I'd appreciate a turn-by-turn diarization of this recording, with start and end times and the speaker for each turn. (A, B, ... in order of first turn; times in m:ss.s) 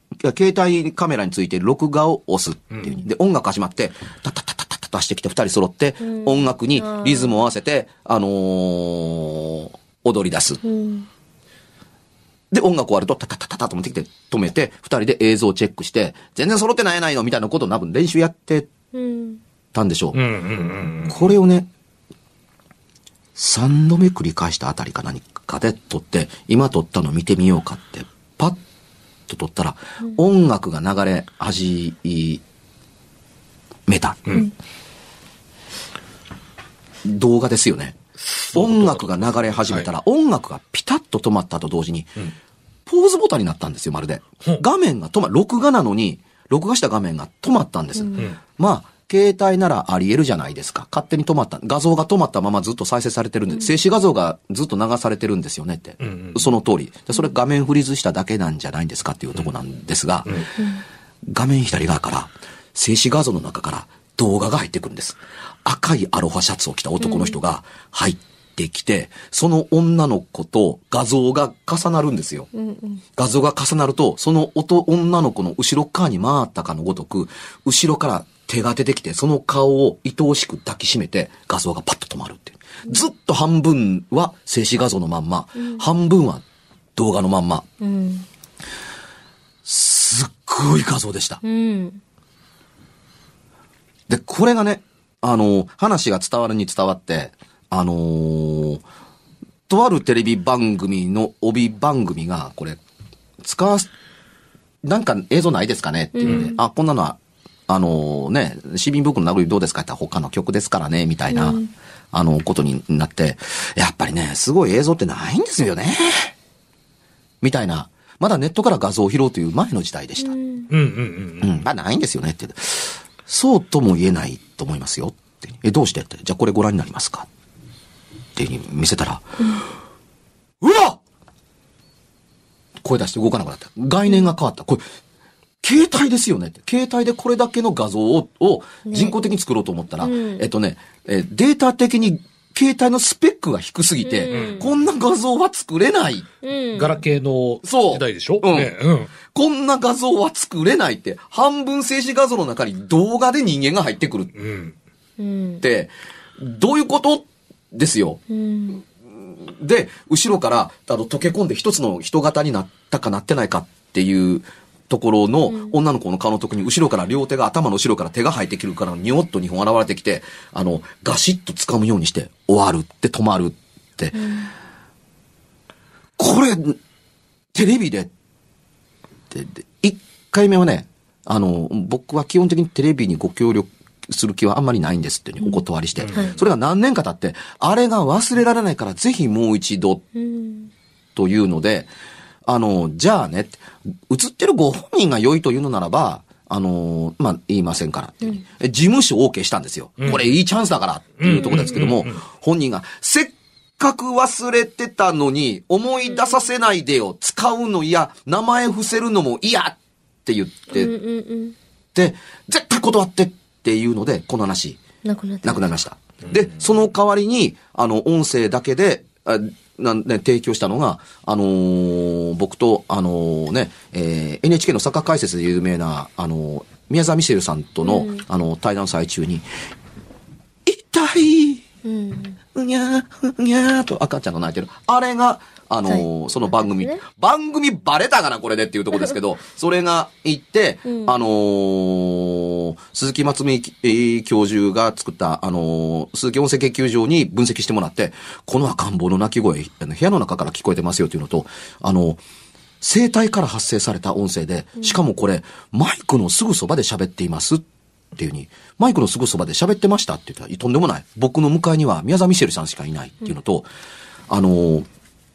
0:00.2-0:10.6 A
0:02.7-0:03.0 B
0:06.0-0:07.4 C
0:10.6-0:11.1 C
0:12.5-0:18.7 A
0:18.9-0:19.4 C
0:19.7-0:20.2 A
0:20.1-0:21.2 B
0:21.1-0:21.7 A
0:23.4-0:28.6 A
0:29.3-0:32.4 A
0:33.9-0:34.3 A
0:37.0-0:38.0 A
0:38.2-0:39.9 B
0:38.5-0:42.1 A
0:42.9-1:00.4 A
0:48.0-0:48.3 C
0:56.0-0:56.5 B
1:00.6-1:00.8 C
1:01.3-1:12.5 A
1:07.0-1:07.4 C
1:12.5-1:13.0 C
1:13.2-1:26.4 A
1:25.6-1:25.9 C
1:27.0-1:27.7 A
1:27.8-1:28.3 C
1:29.6-1:31.4 A
1:31.4-1:32.0 C
1:34.1-1:38.8 A
1:39.7-1:42.8 A
1:43.4-1:43.9 A
1:44.8-1:51.6 A
1:46.1-1:46.6 C
1:51.3-1:51.7 C
1:52.1-1:56.3 A
1:57.4-2:00.4 A
2:00.2-2:00.7 C
2:00.7-2:01.6 B
2:01.4-2:07.3 A
2:08.4-2:09.3 A
2:09.4-2:09.6 C
2:10.6-2:11.0 A
2:12.8-2:14.8 A
2:15.6-2:26.3 A
2:18.9-2:19.2 C
2:20.0-2:20.4 C
2:24.0-2:24.7 C
2:24.3-2:24.7 B
2:26.4-2:27.0 C
2:26.8-2:29.1 B
2:27.6-2:28.7 A
2:29.2-2:34.3 A
2:34.4-2:34.8 B
2:35.2-2:35.6 C
2:35.6-2:38.2 A
2:38.3-2:38.8 C
2:39.2-2:54.2 A
2:45.5-2:45.8 C
2:54.1-2:54.5 C
2:56.2-2:56.8 A
2:57.5-2:58.1 A
2:59.3-3:10.0 A
3:05.4-3:06.4 C
3:06.0-3:06.4 B
3:10.2-3:10.7 C
3:11.2-3:11.9 A
3:12.4-3:30.9 A
3:20.0-3:20.3 B
3:21.2-3:22.2 B
3:30.7-3:31.6 C
3:32.0-3:34.8 A
3:35.0-3:35.7 C
3:35.4-3:49.5 A
3:47.8-3:48.2 C
3:50.6-3:51.6 A
3:51.8-3:52.4 C
3:52.5-4:12.2 A
3:55.9-3:57.0 C
4:00.9-4:01.2 C
4:12.8-4:17.6 A
4:18.2-4:23.7 A
4:24.3-4:24.9 A